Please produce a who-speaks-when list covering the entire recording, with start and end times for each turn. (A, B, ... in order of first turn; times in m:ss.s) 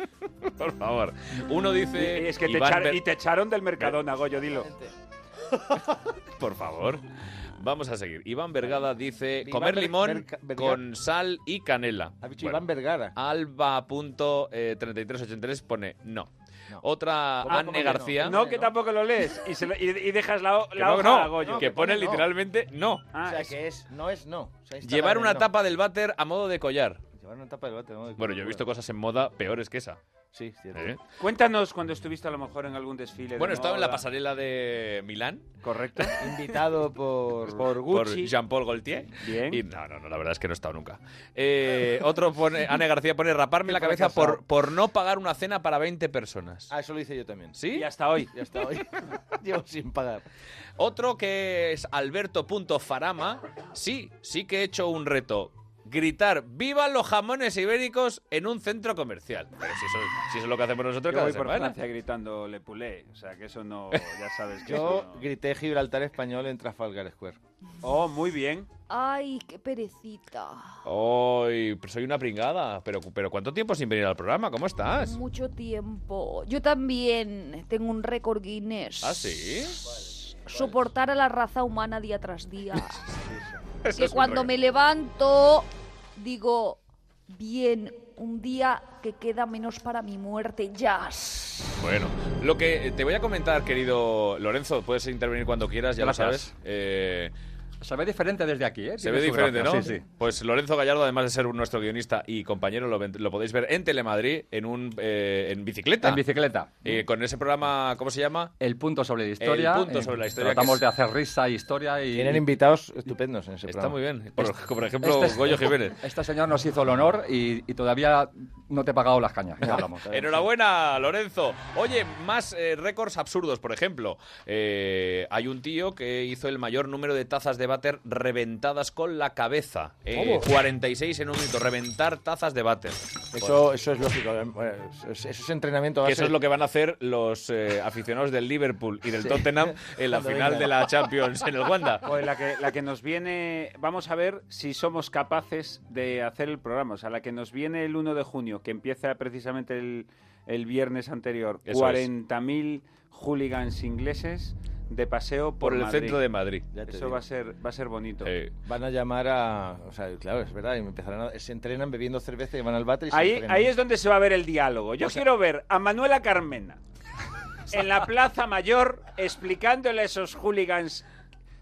0:00.4-0:03.0 A
0:01.9-0:04.7 B
0:04.4-0:04.9 C
0:06.4-0:12.6 A
0:09.4-0:10.8 C
0:12.2-0:13.1 C
0:13.1-0:16.3 A
0:16.8-0:18.4 A
0:17.4-0:18.7 C
0:17.5-0:21.8 B
0:20.7-0:23.0 A
0:21.4-0:22.3 C
0:23.1-0:23.5 B
0:23.2-0:25.5 C
0:24.8-0:27.0 A
0:27.2-0:28.6 C
0:28.2-0:30.0 A
0:30.3-0:31.0 C
0:30.7-0:31.0 A
0:31.2-0:34.0 B
0:33.4-0:35.5 A
0:35.6-0:36.3 B
0:36.2-0:37.7 C
0:37.5-0:38.3 B
0:37.9-0:46.7 A
0:39.2-0:39.6 B
0:43.6-0:44.4 C
0:46.7-0:47.6 C
0:47.6-0:47.9 A
0:47.7-0:48.3 B
0:48.3-0:50.2 C
0:50.8-1:01.8 A
1:01.1-1:05.3 B
1:04.6-1:07.4 C
1:07.8-1:08.7 B
1:08.9-1:10.7 D
1:10.8-1:15.2 A
1:15.0-1:19.4 D
1:19.0-1:19.8 A
1:20.4-1:23.0 D
1:23.8-1:24.5 A
1:24.0-1:25.6 D
1:26.2-1:26.8 D
1:27.3-1:31.8 D
1:31.8-1:37.3 A
1:36.0-1:36.5 E
1:37.8-1:40.0 E
1:39.0-1:46.2 A
1:46.0-1:47.0 E
1:46.8-1:48.5 A
1:48.6-1:52.5 E
1:49.4-1:50.8 A
1:52.1-1:54.0 C
1:53.6-1:56.0 A
1:54.4-2:00.2 E
1:59.6-2:13.6 A
2:00.1-2:00.4 C
2:13.3-2:16.4 C
2:16.0-2:22.0 A
2:19.2-2:20.8 C
2:22.0-2:36.2 B
2:31.6-2:32.1 A
2:35.6-2:36.6 A
2:36.7-2:37.2 C
2:36.9-2:38.3 B
2:38.2-2:38.5 A
2:38.6-2:43.7 C
2:43.1-2:46.8 B
2:47.7-2:51.0 B